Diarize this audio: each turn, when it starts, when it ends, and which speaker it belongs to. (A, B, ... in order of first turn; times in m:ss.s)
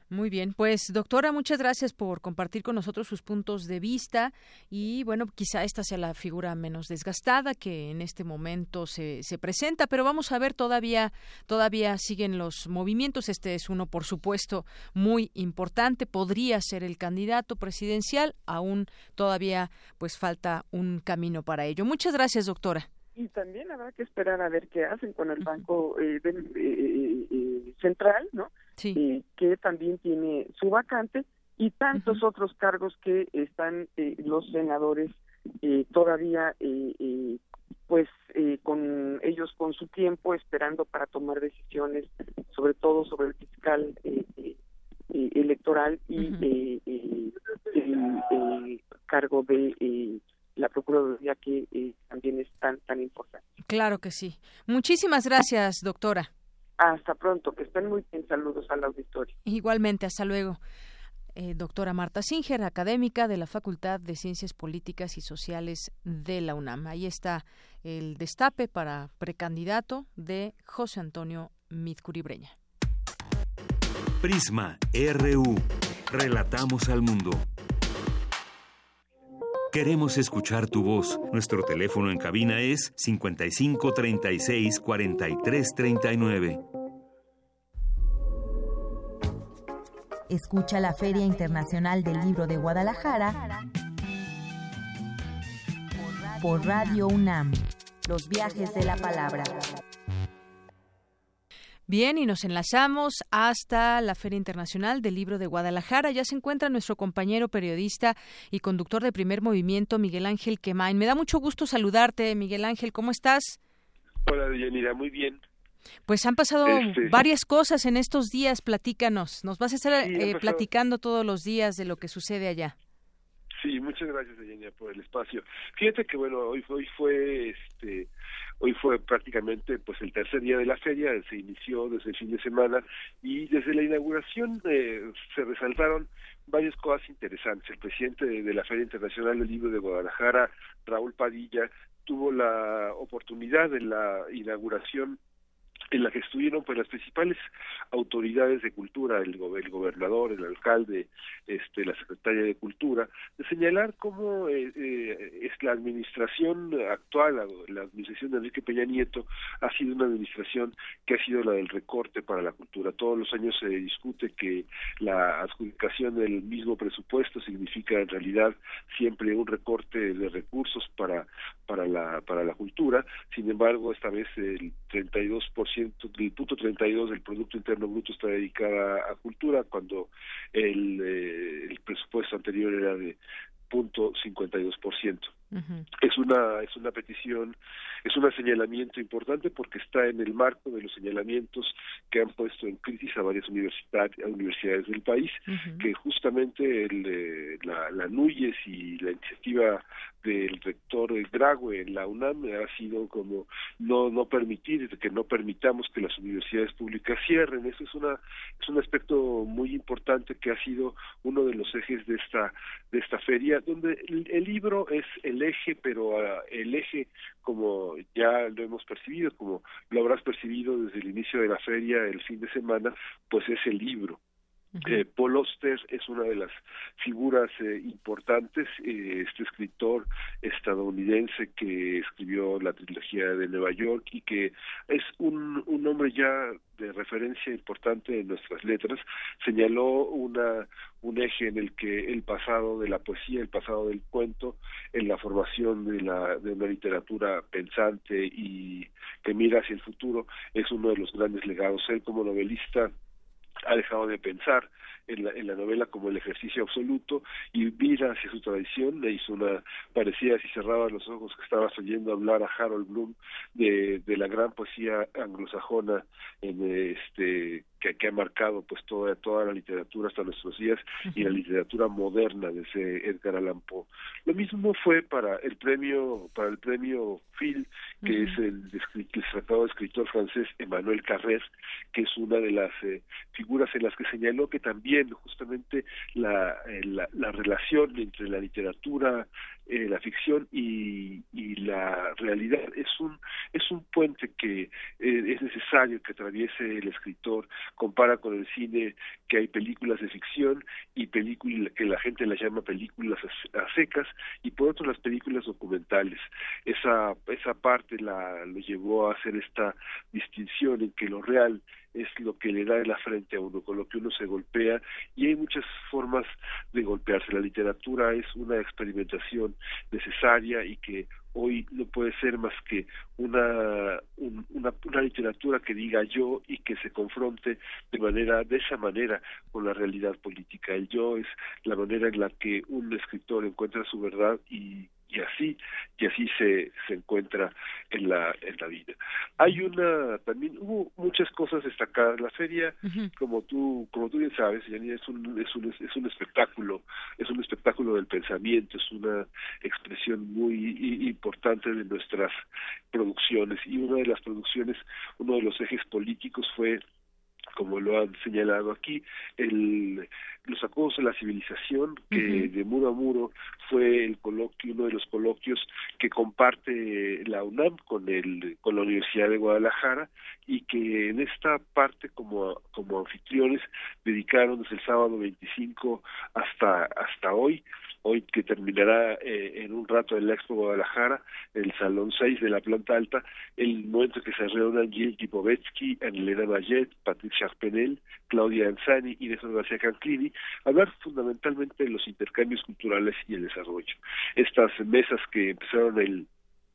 0:00.1-0:22.9 A
0:23.2-0:44.6 B
0:28.8-0:29.0 A
0:32.0-0:32.2 A
0:45.1-0:53.4 B
0:46.2-0:46.4 A
0:53.7-0:56.3 A
0:56.8-0:59.4 B
0:59.5-1:00.6 A
1:01.4-1:12.5 A
1:14.2-1:17.5 C
1:19.7-1:26.6 C
1:30.3-1:33.5 D
1:36.0-1:39.7 D
1:41.9-1:53.6 A
1:54.3-1:55.4 E
1:56.1-2:02.8 A
1:56.7-1:57.2 E
2:00.0-2:00.6 E
2:03.6-2:08.1 E
2:08.6-2:25.2 E
2:25.9-2:27.4 E
2:27.9-3:03.2 E
3:03.7-3:05.3 E
3:05.5-3:05.9 A
3:06.0-3:44.2 E
3:15.5-3:15.9 A
3:44.8-4:12.9 E
4:13.7-5:52.4 E
4:38.0-4:38.4 A
5:42.8-5:43.1 A
5:52.9-5:56.8 E
5:57.6-6:36.3 E
6:02.1-6:02.5 A